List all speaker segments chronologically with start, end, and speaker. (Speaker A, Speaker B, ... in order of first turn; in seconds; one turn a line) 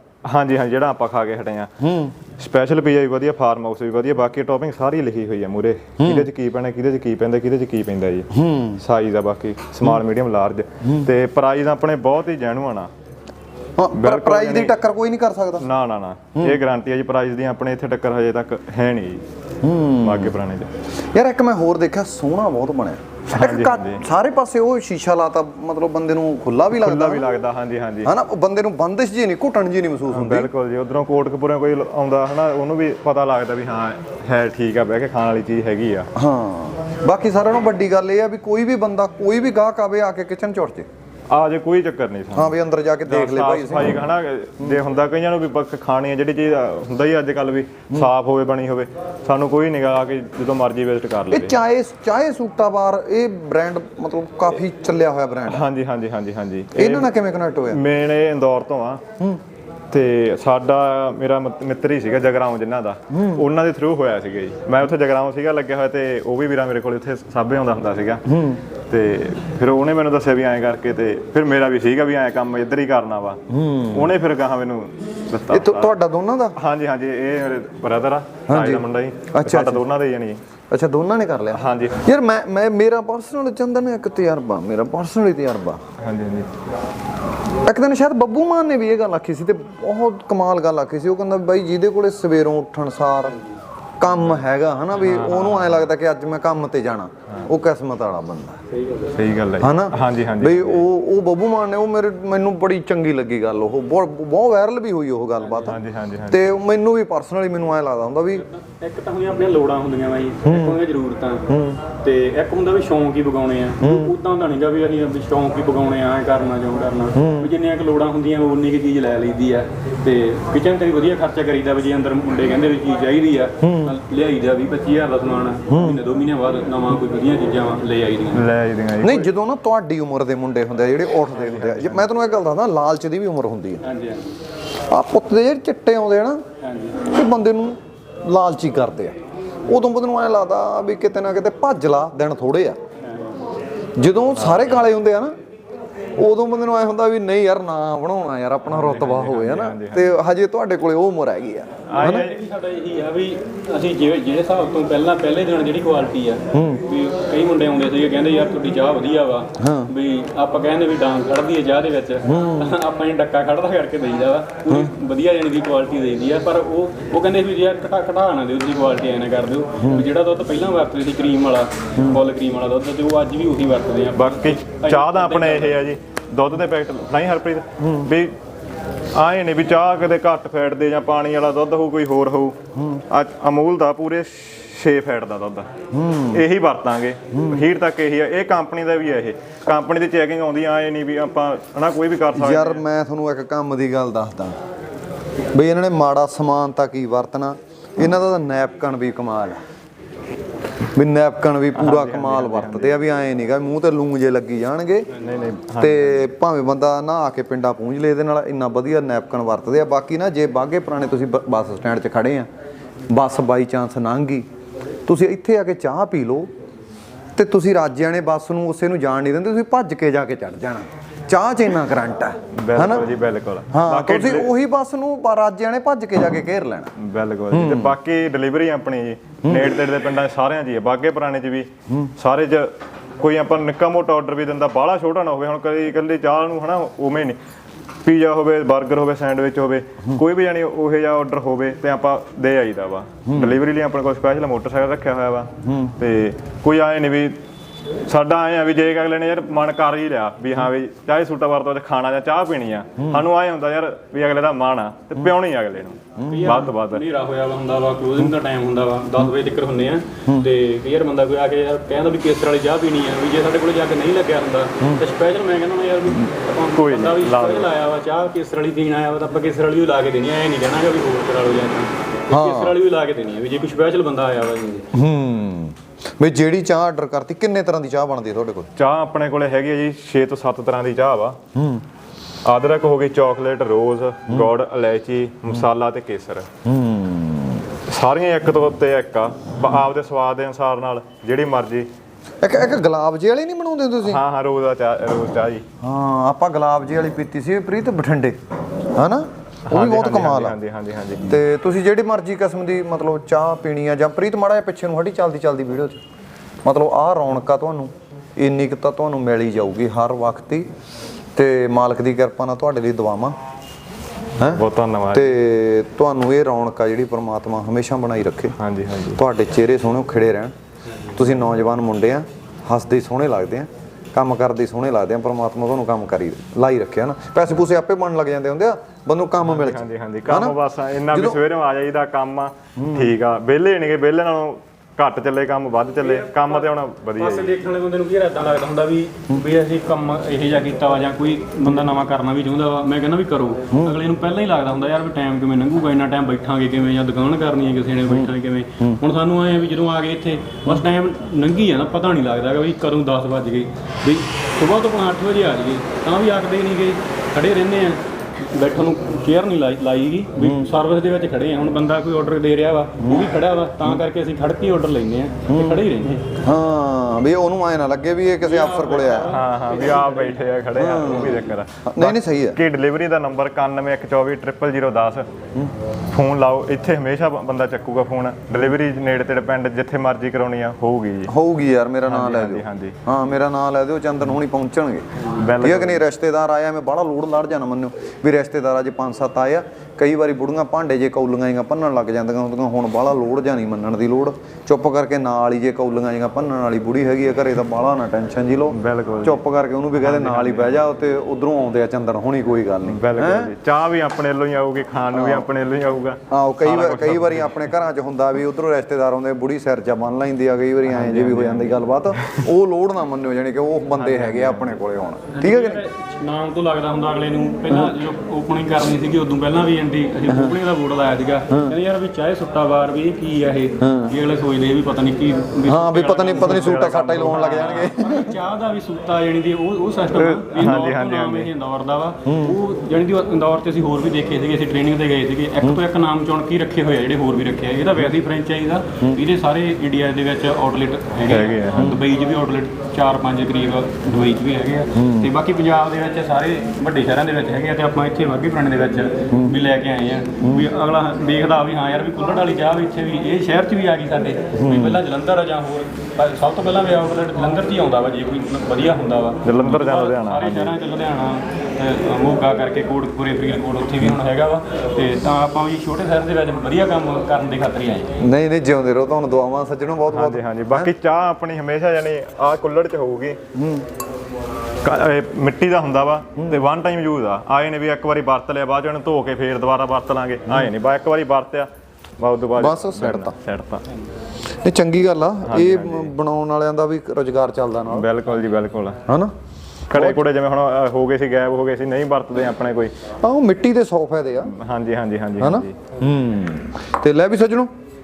Speaker A: 0.2-1.7
Speaker B: 1.8-2.1
Speaker A: 2.3-8.3
Speaker B: 6.0-6.2
Speaker B: 8.3-8.8
Speaker A: 8.8-12.9
Speaker B: 13.8-15.6
Speaker A: 13.9-14.8
Speaker A: 15.6-19.2
Speaker B: 19.6-20.3
Speaker A: 20.0-20.7
Speaker B: 21.1-27.2
Speaker A: 23.3-24.0
Speaker A: 26.7-28.1
Speaker B: 28.0-30.5
Speaker A: 30.1-36.1
Speaker B: 36.1-40.9
Speaker A: 41.3-51.5
Speaker B: 42.3-44.0
Speaker B: 51.3-55.6
Speaker A: 55.5-57.1
Speaker B: 56.7-57.8
Speaker A: 57.7-59.0
Speaker A: 59.9-68.2
Speaker B: 63.1-63.4
Speaker B: 68.3-68.6
Speaker A: 68.9-75.9
Speaker B: 73.5-74.1
Speaker B: 75.5-76.6
Speaker A: 76.5-80.4
Speaker B: 78.5-79.8
Speaker B: 80.7-85.8
Speaker A: 81.5-82.0
Speaker A: 86.0-86.5
Speaker B: 87.6-93.4
Speaker B: 94.0-98.6
Speaker A: 94.9-95.9
Speaker C: 98.7-99.2
Speaker A: 99.1-100.8
Speaker B: 99.6-105.8
Speaker C: 105.4-105.7
Speaker A: 105.7-106.5
Speaker B: 106.3-108.4
Speaker C: 108.3-128.5
Speaker B: 110.4-110.8
Speaker B: 111.5-111.8
Speaker B: 113.8-114.1
Speaker B: 117.2-117.5
Speaker B: 123.6-124.0
Speaker B: 125.7-126.0
Speaker A: 128.3-129.3
Speaker B: 129.0-133.8
Speaker A: 131.3-132.1
Speaker C: 133.8-134.3
Speaker B: 134.9-136.4
Speaker C: 136.6-137.0
Speaker B: 137.0-142.8
Speaker C: 143.1-143.4
Speaker B: 144.0-145.3
Speaker A: 144.3-144.8
Speaker B: 146.2-152.3
Speaker A: 148.6-150.2
Speaker A: 151.9-152.4
Speaker C: 152.0-175.8
Speaker B: 156.5-156.8
Speaker B: 159.6-159.9
Speaker B: 162.2-162.7
Speaker B: 169.8-170.1
Speaker A: 174.1-178.3
Speaker B: 177.8-178.1
Speaker A: 179.1-185.7
Speaker B: 185.9-186.4
Speaker A: 186.3-192.8
Speaker B: 187.3-187.6
Speaker B: 192.3-194.5
Speaker B: 195.5-199.6
Speaker B: 200.9-205.1
Speaker A: 201.7-203.0
Speaker A: 205.1-206.3
Speaker B: 205.8-212.5
Speaker B: 213.1-214.4
Speaker B: 215.1-216.5
Speaker B: 217.3-223.0
Speaker A: 222.5-224.5
Speaker B: 223.7-226.9
Speaker A: 227.0-237.4
Speaker B: 227.5-227.9
Speaker A: 238.0-247.4
Speaker B: 243.2-243.5
Speaker B: 245.6-245.9
Speaker A: 248.1-257.0
Speaker B: 256.2-256.6
Speaker C: 256.2-274.9
Speaker A: 266.7-267.7
Speaker B: 272.3-272.8
Speaker B: 274.9-278.7
Speaker A: 278.8-281.4
Speaker B: 281.5-281.8
Speaker A: 282.4-286.5
Speaker B: 286.6-287.6
Speaker A: 287.9-291.9
Speaker B: 292.4-294.2
Speaker A: 294.0-295.6
Speaker B: 295.8-298.4
Speaker B: 298.9-300.6
Speaker A: 299.7-301.4
Speaker B: 301.2-306.0
Speaker B: 306.6-310.7
Speaker B: 311.3-313.4
Speaker B: 314.4-318.6
Speaker A: 314.4-315.4
Speaker A: 318.6-319.2
Speaker B: 319.1-320.5
Speaker B: 321.1-330.6
Speaker A: 329.4-337.6
Speaker B: 331.1-331.4
Speaker B: 332.8-333.1
Speaker C: 336.0-366.2
Speaker B: 343.7-344.0
Speaker B: 348.1-349.0
Speaker B: 360.4-360.7
Speaker B: 365.5-365.8
Speaker B: 366.4-369.4
Speaker C: 368.4-371.4
Speaker A: 369.2-375.3
Speaker B: 370.8-372.6
Speaker A: 376.1-381.3
Speaker B: 381.3-385.0
Speaker A: 382.0-382.9
Speaker A: 385.3-386.0
Speaker B: 385.6-403.5
Speaker A: 398.7-399.4
Speaker A: 399.9-400.8
Speaker A: 402.9-407.7
Speaker B: 405.1-405.5
Speaker B: 406.3-415.8
Speaker A: 410.9-412.5
Speaker A: 413.9-414.8
Speaker C: 415.3-468.1
Speaker B: 420.3-420.5
Speaker B: 423.8-424.1
Speaker B: 425.6-428.3
Speaker A: 426.3-427.9
Speaker A: 430.1-431.5
Speaker B: 432.2-432.6
Speaker A: 441.2-441.9
Speaker B: 444.9-445.3
Speaker B: 449.3-449.6
Speaker B: 450.4-450.7
Speaker B: 454.5-455.0
Speaker A: 459.4-460.8
Speaker B: 468.2-470.9
Speaker A: 470.1-473.4
Speaker B: 473.6-473.8
Speaker A: 474.8-483.8
Speaker B: 482.6-483.4
Speaker B: 484.6-488.1
Speaker A: 485.4-486.1
Speaker A: 487.9-489.0
Speaker B: 489.1-489.3
Speaker A: 489.9-492.9
Speaker B: 489.9-490.2
Speaker B: 493.2-494.5
Speaker A: 494.4-495.8
Speaker B: 495.4-497.7